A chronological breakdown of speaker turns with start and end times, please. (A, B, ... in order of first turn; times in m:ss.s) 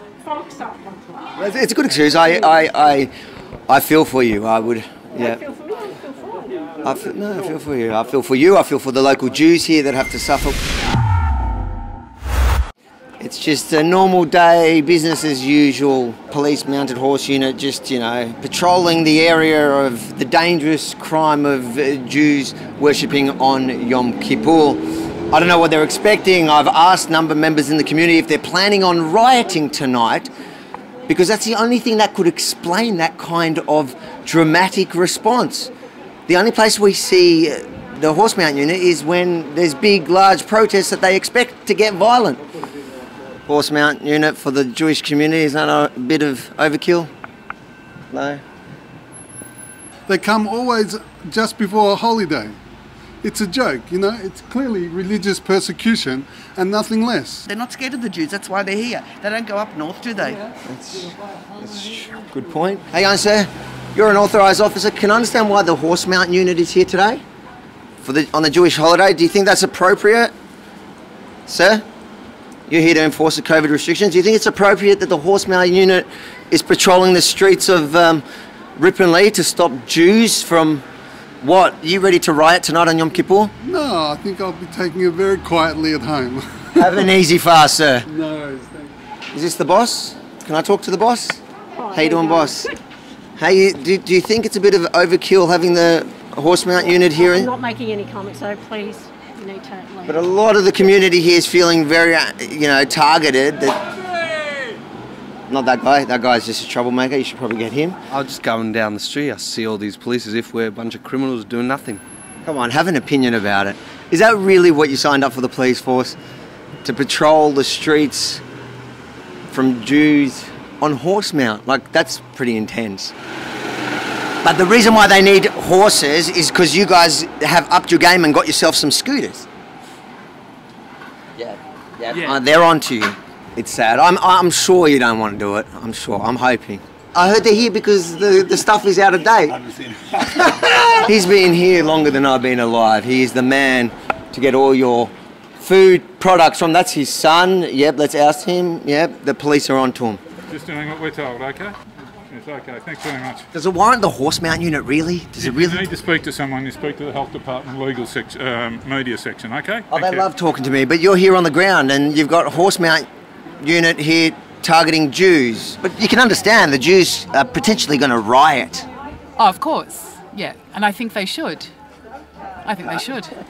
0:00.2-0:01.2 A
0:01.4-0:03.1 B
0:03.7-0:05.4 B
0:06.8-0:10.6 B
0:13.2-0:30.3 B
0:31.1-0:35.7 B
0:36.3-0:42.4 B
0:43.4-0:47.1 B
0:48.1-0:48.4 B
0:50.1-0:52.6 C
0:53.2-0:57.4 C
0:57.5-1:00.4 D
1:00.6-1:07.2 B
1:08.0-1:10.3 B
1:11.5-1:11.8 B
1:12.7-1:18.2 B
1:18.8-1:20.8 B
1:21.4-1:23.5 B
1:23.6-1:26.9 C
1:26.8-1:28.1 B
1:28.0-1:28.9 C
1:29.3-1:31.4 B
1:31.8-1:32.6 A
1:31.9-1:32.7 B
1:33.4-1:37.5 B
1:37.2-1:40.3 A
1:40.0-1:43.8 B
1:45.5-1:48.0 B
1:48.1-1:52.0 E
1:52.4-1:56.2 B
1:56.8-1:58.4 B
1:59.5-2:03.1 B
2:04.4-2:09.5 B
2:11.4-2:19.6 B
2:20.1-2:30.2 B
2:30.5-2:31.7 F
2:32.3-2:33.5 F
2:33.5-2:35.9 B
2:35.4-2:40.3 F
2:39.9-2:43.1 B
2:43.6-2:48.8 B
2:49.4-2:51.7 G
2:52.6-2:53.3 G